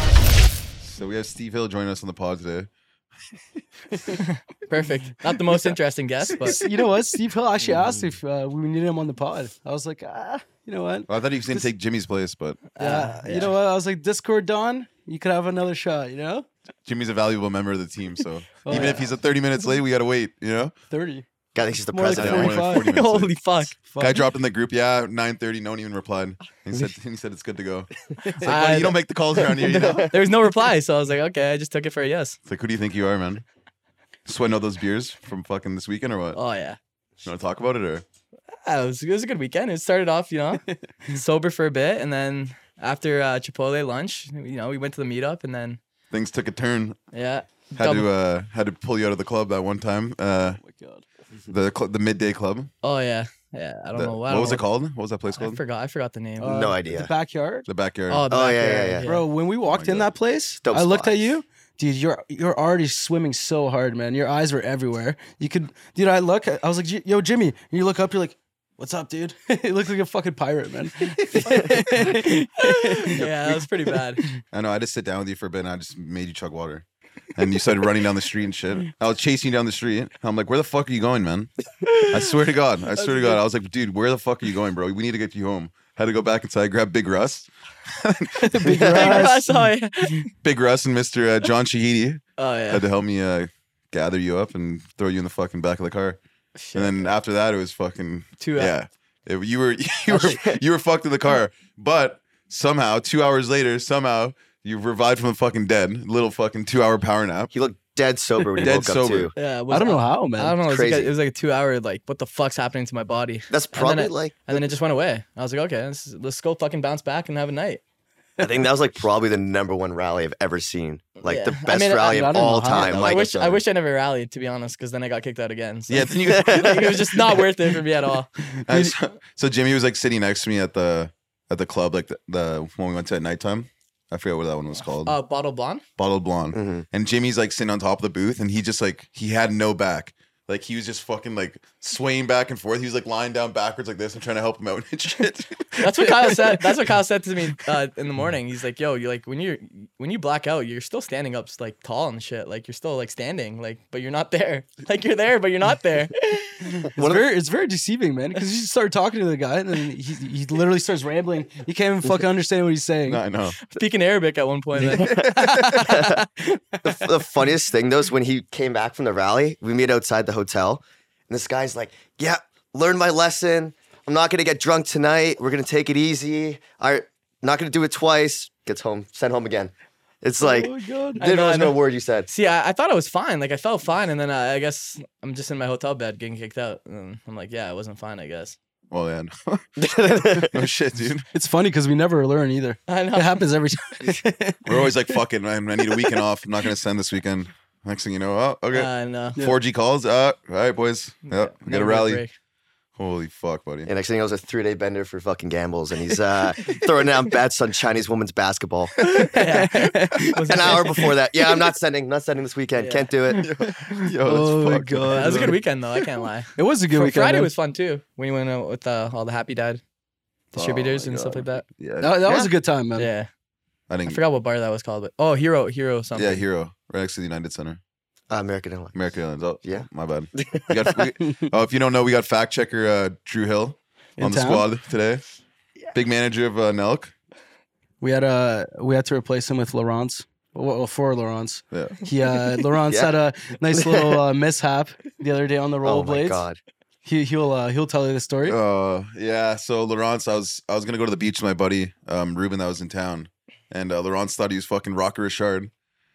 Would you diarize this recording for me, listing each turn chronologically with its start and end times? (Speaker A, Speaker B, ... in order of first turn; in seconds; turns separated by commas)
Speaker A: 0.8-2.7, Speaker B: 4.2-6.7, Speaker C: 6.5-11.1, Speaker A: 7.7-8.0, Speaker A: 11.1-12.6, Speaker B: 12.8-13.5, Speaker C: 12.8-16.5, Speaker A: 16.9-20.7, Speaker C: 18.6-19.1, Speaker C: 20.9-21.2, Speaker D: 21.5-22.6, Speaker C: 21.9-22.9, Speaker A: 22.1-30.2, Speaker B: 22.7-23.8, Speaker C: 23.8-24.2, Speaker B: 28.3-32.4, Speaker D: 29.8-30.1, Speaker A: 32.5-33.4, Speaker A: 34.2-36.4, Speaker B: 36.3-36.8, Speaker A: 37.2-38.0, Speaker B: 38.5-45.8, Speaker A: 46.1-47.0, Speaker B: 47.1-48.1, Speaker A: 47.8-50.6, Speaker C: 50.6-51.0, Speaker A: 51.5-52.7, Speaker B: 52.8-54.6, Speaker A: 53.9-55.6, Speaker B: 55.3-56.6, Speaker C: 56.4-57.7, Speaker D: 56.4-57.1, Speaker A: 57.6-58.3, Speaker B: 58.1-59.2, Speaker D: 58.3-59.1, Speaker C: 59.0-73.2, Speaker A: 59.7-60.1, Speaker D: 60.6-61.3, Speaker B: 72.6-74.3, Speaker A: 73.2-73.5, Speaker A: 74.5-88.9, Speaker C: 88.4-89.7, Speaker B: 88.9-90.3, Speaker A: 90.4-96.2, Speaker B: 92.4-92.8, Speaker B: 96.5-97.0, Speaker A: 96.7-107.5, Speaker B: 98.4-98.7, Speaker D: 100.1-100.6, Speaker D: 107.5-109.3, Speaker A: 108.6-109.3, Speaker B: 109.3-117.8, Speaker C: 109.7-110.5, Speaker D: 110.6-111.1, Speaker D: 113.5-114.7, Speaker D: 118.4-123.6, Speaker B: 121.2-128.3, Speaker C: 122.0-123.0, Speaker A: 122.8-123.3, Speaker A: 125.9-126.9, Speaker D: 126.3-127.0, Speaker C: 128.5-128.9, Speaker A: 128.7-135.1, Speaker B: 135.0-135.8, Speaker A: 136.0-146.6, Speaker D: 136.5-136.8, Speaker B: 145.8-156.7, Speaker C: 156.8-163.2, Speaker D: 157.0-157.2, Speaker A: 163.1-163.6, Speaker B: 163.7-166.2, Speaker D: 165.0-166.2, Speaker C: 165.0-166.2, Speaker D: 166.8-182.3, Speaker C: 180.4-181.2, Speaker B: 181.2-188.6, Speaker A: 188.9-191.2, Speaker D: 189.8-190.6, Speaker C: 191.3-195.1, Speaker B: 192.9-193.4, Speaker A: 194.6-202.2, Speaker B: 198.7-199.4, Speaker B: 201.2-202.3, Speaker A: 203.0-203.9, Speaker D: 203.8-208.9, Speaker C: 209.0-211.0, Speaker B: 209.2-211.1, Speaker D: 210.5-213.5, Speaker B: 212.7-213.1, Speaker C: 213.3-215.6, Speaker A: 213.4-216.0, Speaker B: 215.1-219.8, Speaker C: 216.6-217.5, Speaker B: 220.5-221.7, Speaker A: 220.5-222.2, Speaker C: 222.0-223.1, Speaker D: 222.2-222.5, Speaker B: 222.9-223.3, Speaker A: 223.9-224.2, Speaker B: 224.1-226.4, Speaker A: 226.1-227.8, Speaker D: 228.3-228.9, Speaker A: 228.9-235.2, Speaker D: 229.6-231.1, Speaker C: 234.2-234.7, Speaker A: 235.9-237.1, Speaker C: 238.0-246.4, Speaker A: 241.7-242.0, Speaker D: 242.9-243.1, Speaker D: 243.7-244.2, Speaker D: 245.8-246.6, Speaker C: 247.0-248.6, Speaker A: 248.4-255.7